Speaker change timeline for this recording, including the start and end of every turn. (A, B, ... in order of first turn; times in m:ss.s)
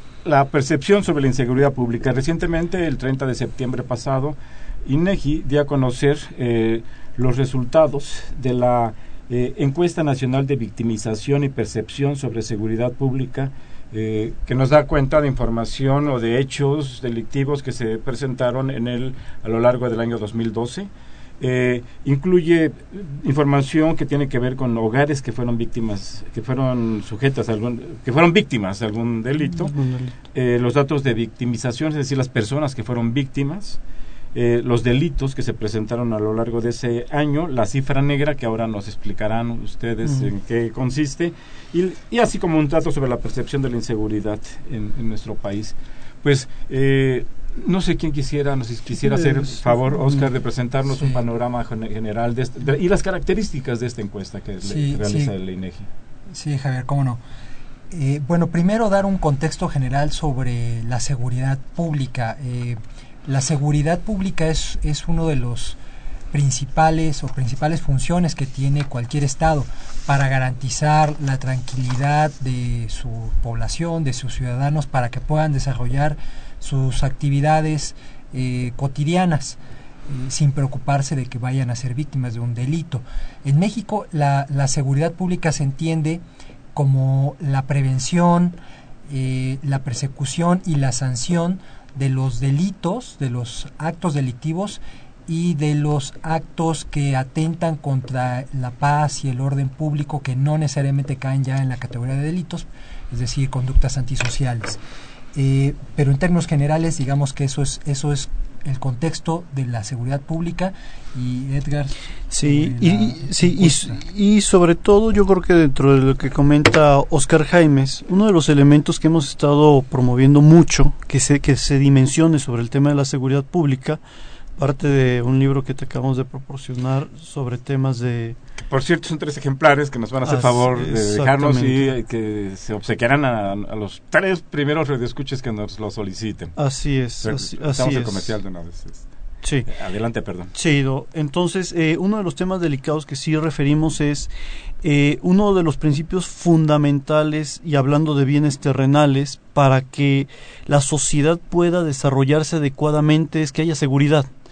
0:00.2-0:29.7 A
0:29.4-0:30.2 B
0:30.3-0:33.8 A
0:34.3-0:55.9 A
0:40.0-0:40.3 B
0:48.9-0:50.2 B
0:51.0-0:51.2 C
0:54.6-0:55.3 C
0:56.3-0:57.2 C
0:57.9-1:05.8 C
1:06.3-1:26.2 C
1:26.8-1:28.6 C
1:29.1-1:44.8 C
1:45.3-1:54.0 C
1:52.3-2:04.0 B
2:04.6-2:08.4 B
2:08.6-2:16.5 A
2:10.2-2:11.9 B
2:16.6-2:18.3 B
2:17.2-2:19.1 A
2:19.4-2:19.7 B
2:19.6-2:20.5 A
2:20.5-2:24.3 B
2:24.8-2:34.3 B